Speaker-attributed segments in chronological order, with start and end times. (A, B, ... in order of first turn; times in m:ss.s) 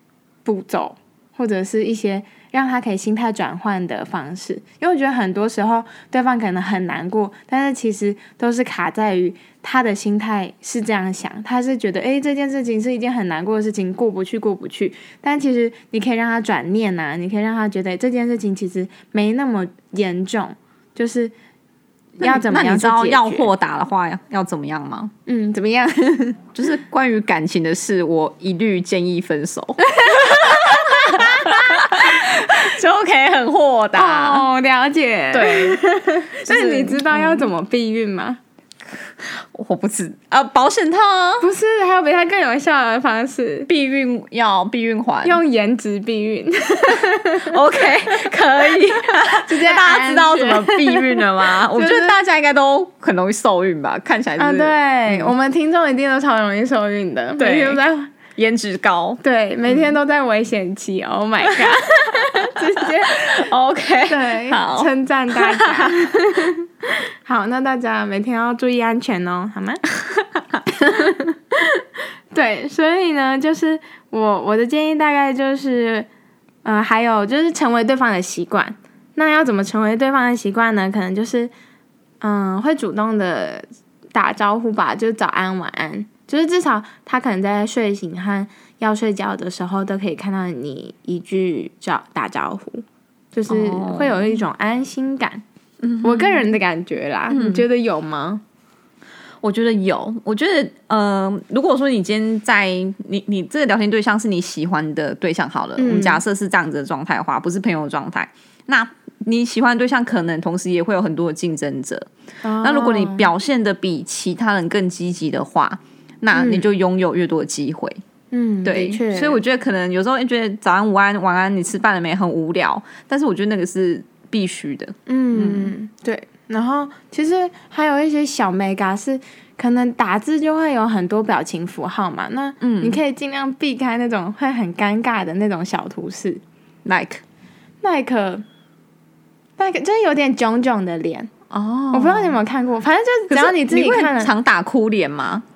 0:00.4-0:21.3 A
0:22.2-0:23.5 A
0:22.2-0:25.1 B
0:25.2-0:26.4 A
0:26.5-0:34.4 B
0:30.0-0:32.4 A
0:33.9-0:38.4 A
0:35.3-0:37.5 B
0:39.2-0:41.5 B
0:41.4-0:43.7 A
0:43.7-0:45.4 B
0:45.2-0:47.6 A
0:47.4-0:55.3 B
0:49.3-0:52.2 A
0:54.4-0:58.1 A
0:57.4-0:57.8 B
0:58.4-0:59.9 B
0:59.2-1:03.4 A
1:01.4-1:06.5 B
1:04.1-1:06.5 A
1:07.2-1:09.8 A
1:10.8-1:11.1 B
1:12.3-1:16.1 A
1:16.6-1:21.5 A
1:22.2-1:35.4 A
1:33.5-1:34.4 B
1:35.8-1:36.6 B
1:36.0-1:38.4 A
1:37.3-1:37.6 B
1:39.4-1:52.1 B
1:45.8-1:46.2 A
1:52.4-1:53.3 A
1:52.6-1:58.0 B
1:56.3-1:56.6 A
1:58.3-1:59.4 A
1:58.6-2:05.7 B
2:05.1-2:16.4 A
2:12.6-2:13.0 B
2:16.8-2:17.2 B
2:17.8-2:18.4 A
2:19.6-2:21.3 A
2:21.5-2:22.4 B
2:21.9-2:24.3 A
2:23.3-2:25.4 B